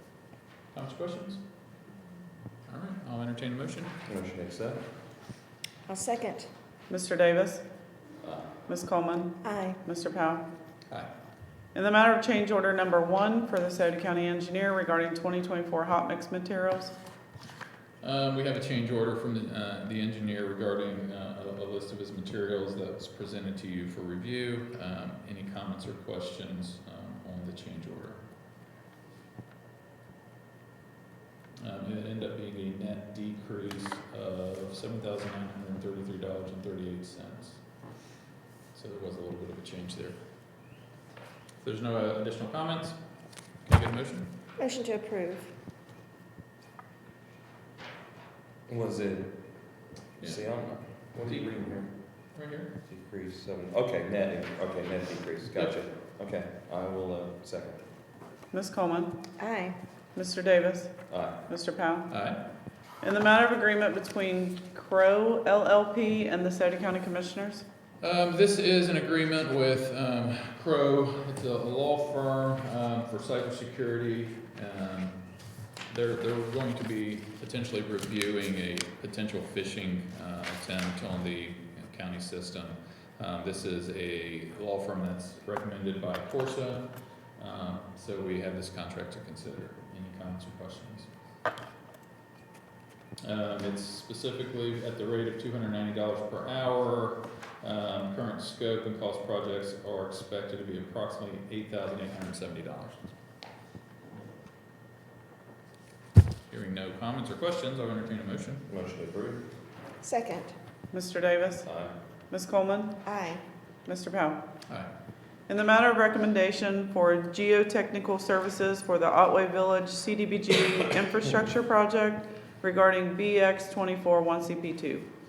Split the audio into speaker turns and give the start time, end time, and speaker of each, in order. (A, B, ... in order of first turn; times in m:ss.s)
0:00.7-0:01.4 A
0:02.7-0:04.0 A
0:04.1-0:04.8 B
0:05.9-0:06.5 C
0:06.9-0:07.6 D
0:08.7-0:10.4 D
0:09.4-0:09.8 C
0:11.8-0:16.9 D
0:18.0-0:28.2 A
0:31.6-0:37.6 A
0:38.7-0:40.2 A
0:41.6-0:43.0 A
0:43.6-0:44.3 A
0:44.6-0:45.5 C
0:48.7-0:49.3 B
0:50.2-0:51.9 B
0:52.3-0:52.7 A
0:52.9-0:57.8 B
0:58.5-0:59.2 D
0:59.4-0:59.8 C
1:00.2-1:01.0 D
1:01.1-1:01.4 B
1:01.5-1:02.1 D
1:02.1-1:02.4 A
1:03.0-1:07.6 D
1:08.0-1:15.2 A
1:15.9-1:31.1 A
1:33.2-1:43.1 A
1:46.5-1:48.6 A
1:48.7-1:49.5 B
1:50.0-1:50.5 C
1:50.9-1:51.6 D
1:51.6-1:52.0 B
1:52.3-1:53.0 D
1:53.0-1:53.4 C
1:53.8-1:54.4 D
1:55.5-2:05.1 D